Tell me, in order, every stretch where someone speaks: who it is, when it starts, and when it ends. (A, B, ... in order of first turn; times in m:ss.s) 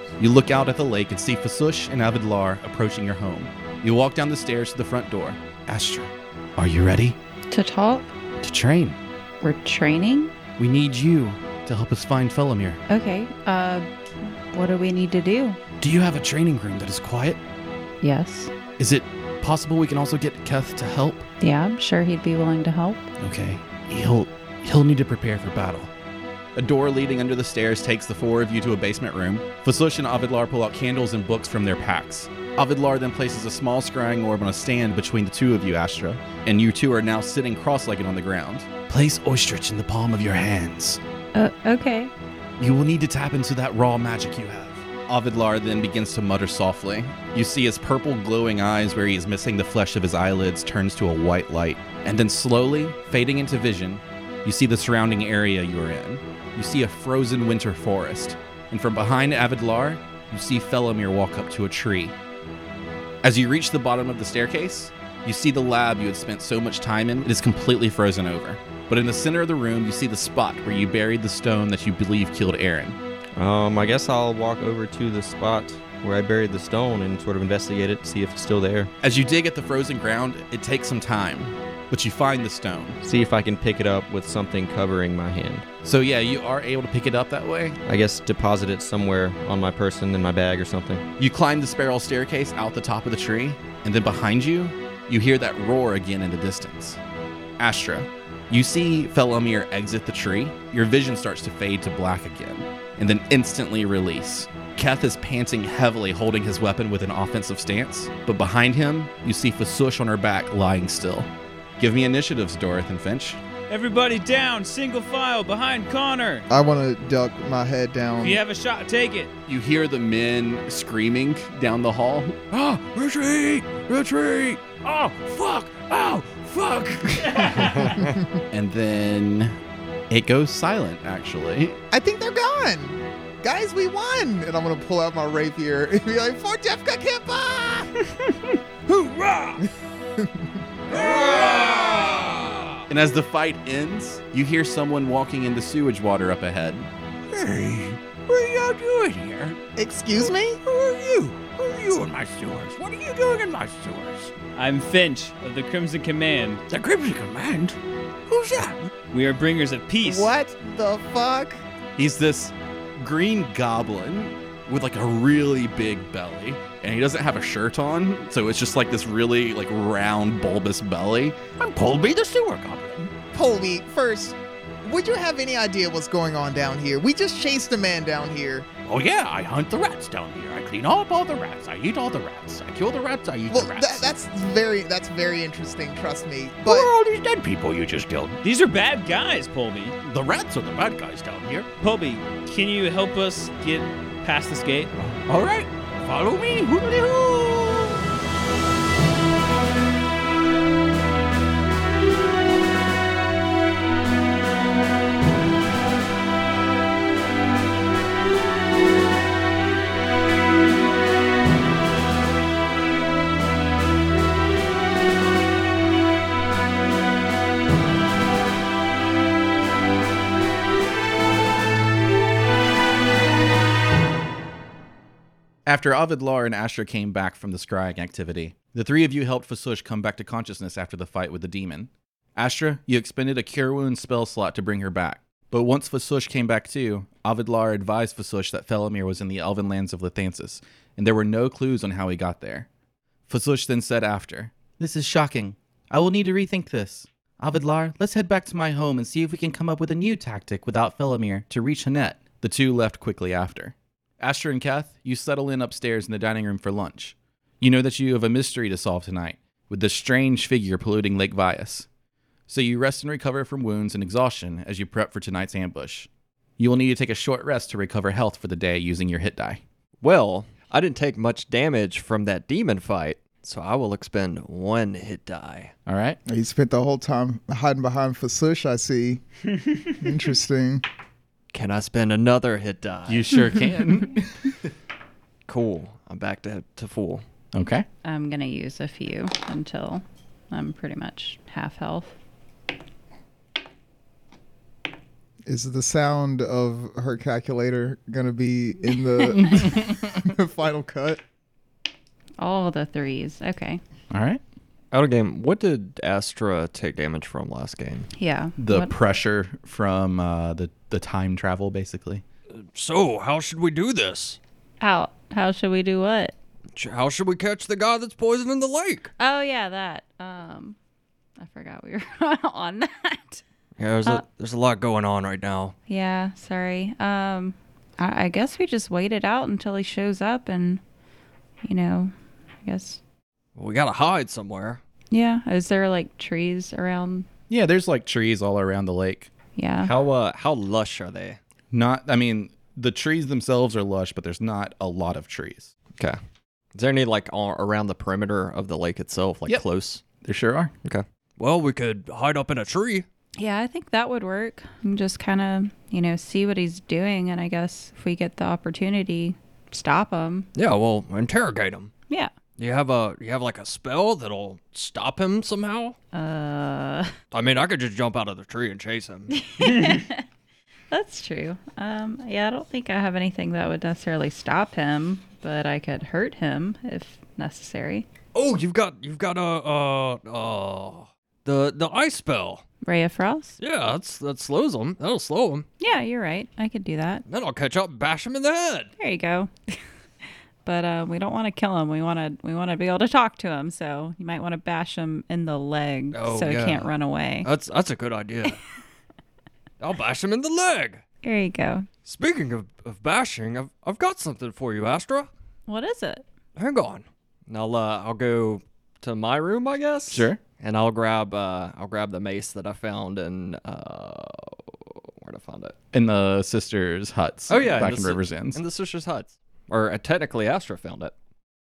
0:00.2-0:07.2 A
0:07.5-0:08.1 B
0:08.4-0:09.0 A
0:09.4-0:10.3 B
0:10.6-0:12.8 A
0:12.9-0:15.6 B
0:15.8-0:17.4 A
0:18.0-0:18.5 B
0:18.8-0:21.2 A
0:21.4-0:23.1 B
0:23.2-0:25.9 A
0:26.6-0:41.0 A
0:41.3-0:42.1 B
0:42.6-1:02.1 A
1:03.2-1:13.0 A
1:13.4-1:18.9 C
1:19.0-1:23.0 A
1:23.0-1:25.7 C
1:25.8-1:27.8 A
1:27.8-1:31.0 C
1:31.2-1:37.0 A
1:37.6-1:53.4 A
1:53.7-1:56.4 D
1:56.5-1:58.4 E
1:58.2-1:59.3 D
1:59.5-2:02.4 A
2:02.5-2:08.1 F
2:07.4-2:07.7 D
2:08.5-2:09.6 A
2:10.1-2:11.8 A
2:11.9-2:18.1 E
2:19.0-2:19.6 F
2:19.6-2:21.1 E
2:20.9-2:22.6 G
2:21.2-2:22.0 F
2:22.9-2:26.9 A
2:27.3-2:29.6 F
2:29.8-2:30.6 E
2:30.1-2:34.3 F
2:34.6-2:36.6 D
2:36.7-2:38.8 F
2:39.1-2:40.3 D
2:40.0-2:41.6 E
2:42.0-2:51.4 A
2:51.6-2:53.1 F
2:53.3-2:58.7 E
2:58.8-3:04.1 F
3:03.5-3:06.9 E
3:06.6-3:08.4 F
3:08.4-3:10.0 D
3:10.0-3:11.7 F
3:11.8-3:14.9 D
3:15.0-3:18.0 F
3:45.6-4:02.7 A
4:03.3-4:21.9 A
4:22.5-4:29.6 A
4:30.0-4:35.7 G
4:35.8-4:36.2 A
4:36.3-4:39.2 E
4:39.9-4:40.8 E
4:41.5-4:43.5 G
4:43.1-4:44.6 A
4:45.5-4:47.2 G
4:47.5-4:47.8 A
4:48.0-4:52.1 B
4:55.5-5:01.2 E
4:59.2-5:00.1 A
5:02.4-5:03.8 B
5:04.1-5:04.4 A
5:04.9-5:08.1 G
5:08.2-5:08.9 B
5:08.6-5:12.2 A
5:12.5-5:14.4 G
5:14.8-5:16.3 B
5:16.8-5:19.1 G
5:19.2-5:20.8 B
5:21.4-5:23.4 B
5:23.8-5:25.7 G
5:25.9-5:30.8 B
5:31.6-5:32.1 B
5:32.6-5:33.0 B
5:33.6-5:34.8 G
5:35.1-5:37.3 B
5:37.5-5:39.3 A
5:39.5-5:39.9 B
5:39.8-5:41.4 G
5:41.7-5:45.7 A
5:46.7-5:50.0 G
5:50.2-5:50.7 A
5:50.8-5:53.0 G
5:53.4-6:00.5 B
6:00.6-6:01.9 G
6:02.6-6:06.0 G
6:06.1-6:07.1 B
6:07.3-6:09.3 G
6:09.3-6:10.2 B
6:10.9-6:18.1 B
6:18.3-6:22.6 G
6:22.8-6:23.6 B
6:23.6-6:25.6 G
6:25.8-6:27.2 B
6:27.3-6:28.9 G
6:29.0-6:29.8 B
6:30.6-6:37.5 B
6:36.1-6:36.9 G
6:37.4-6:38.6 G
6:39.8-6:41.0 G
6:41.2-6:41.9 B
6:42.0-6:45.3 G
6:45.7-6:46.2 B
6:46.6-6:55.7 G
6:50.1-6:50.4 A
6:55.9-6:58.6 A
6:57.5-7:01.1 G